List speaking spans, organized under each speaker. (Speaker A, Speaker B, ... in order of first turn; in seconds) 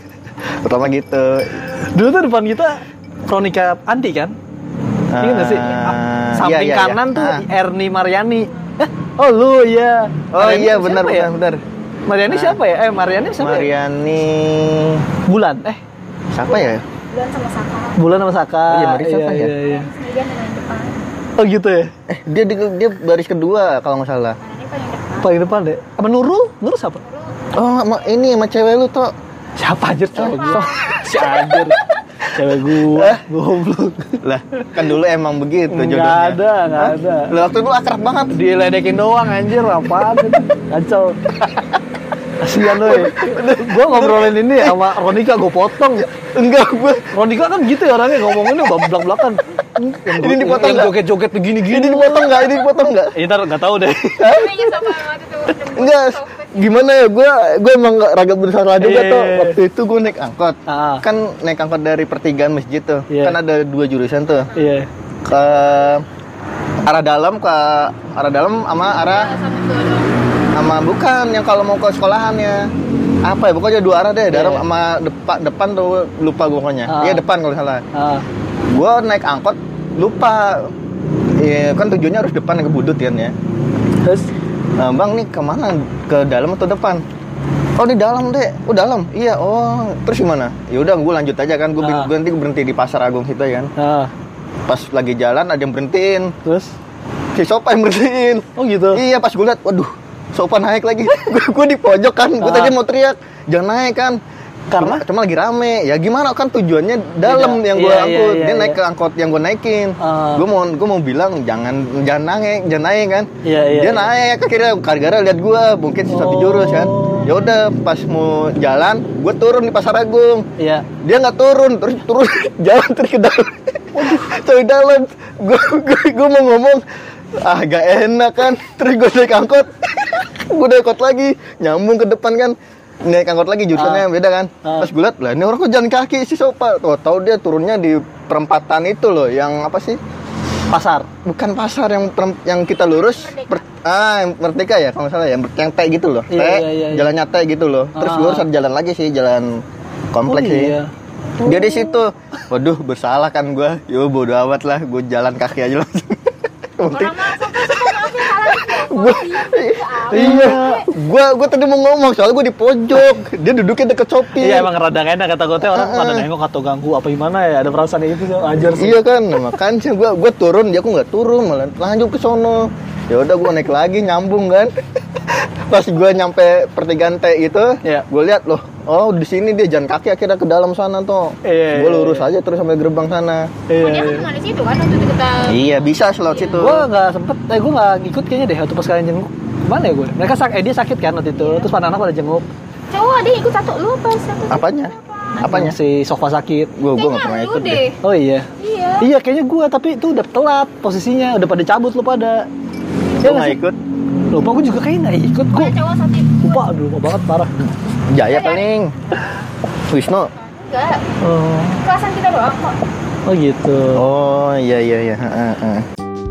Speaker A: 0.5-1.6, 5.1-7.4, 10.3-11.6, 12.2-12.6, 13.4-15.1, 16.3-16.8, 18.7-19.5, 22.1-24.4, 27.5-29.1, 30.2-30.7, 32.9-33.2, 34.2-38.4, 42.7-44.8, 46.2-47.1, 50.1-51.0, 51.6-53.1, 54.2-64.5, 65.2-66.0, 66.8-69.5, 70.5-72.7, 73.2-77.8, 78.7-80.7, 81.4-83.3, 84.8-87.0, 87.8-93.7, 94.7-96.3, 97.3-104.2, 104.8-120.5, 121.0-126.8, 127.4-140.0, 141.2-149.6, 150.1-150.8, 151.4-164.7, 165.6-166.2, 168.7-183.5, 185.4-186.9, 194.5-195.7, 196.8-197.9, 203.2-203.8, 207.6-209.0, 209.9-210.3, 213.9-215.8
Speaker B: 1.7-4.3, 5.2-11.3, 12.1-13.7, 15.2-15.8, 17.9-19.9, 21.4-21.9, 25.2-27.0, 29.6-34.2, 35.7-37.3, 38.3-41.4, 42.4-46.1, 47.1-52.6, 53.1-54.4, 58.8-59.6, 60.7-61.0, 63.1-63.4, 64.5-64.9, 74.3-74.7, 76.9-77.2, 77.9-78.2, 84.0-84.3, 91.8-92.1, 93.8-94.1, 96.4-96.7, 98.5-99.0, 102.4-102.8, 104.7-105.0, 107.2-108.8, 110.0-110.4, 113.4-114.1, 116.1-117.3, 120.6-120.9, 123.9-124.3, 133.7-134.1, 134.6-134.9, 140.7-141.1, 146.3-147.1, 147.9-148.5, 150.2-150.9, 160.1-160.9, 164.3-169.0, 181.4-182.3, 183.7-184.3, 186.5-192.5, 195.4-196.7, 198.0-202.5, 203.2-203.6, 204.3-207.5, 211.2-211.9, 213.2-214.1
Speaker C: 16.6-18.0, 19.6-21.1, 24.4-25.4, 54.3-56.7, 69.4-70.2, 143.2-143.5, 156.9-160.6, 183.8-185.7, 186.3-186.6, 192.9-195.2, 196.9-198.0, 198.6-199.1, 205.5-206.4, 208.2-209.2, 210.4-211.1, 211.8-212.8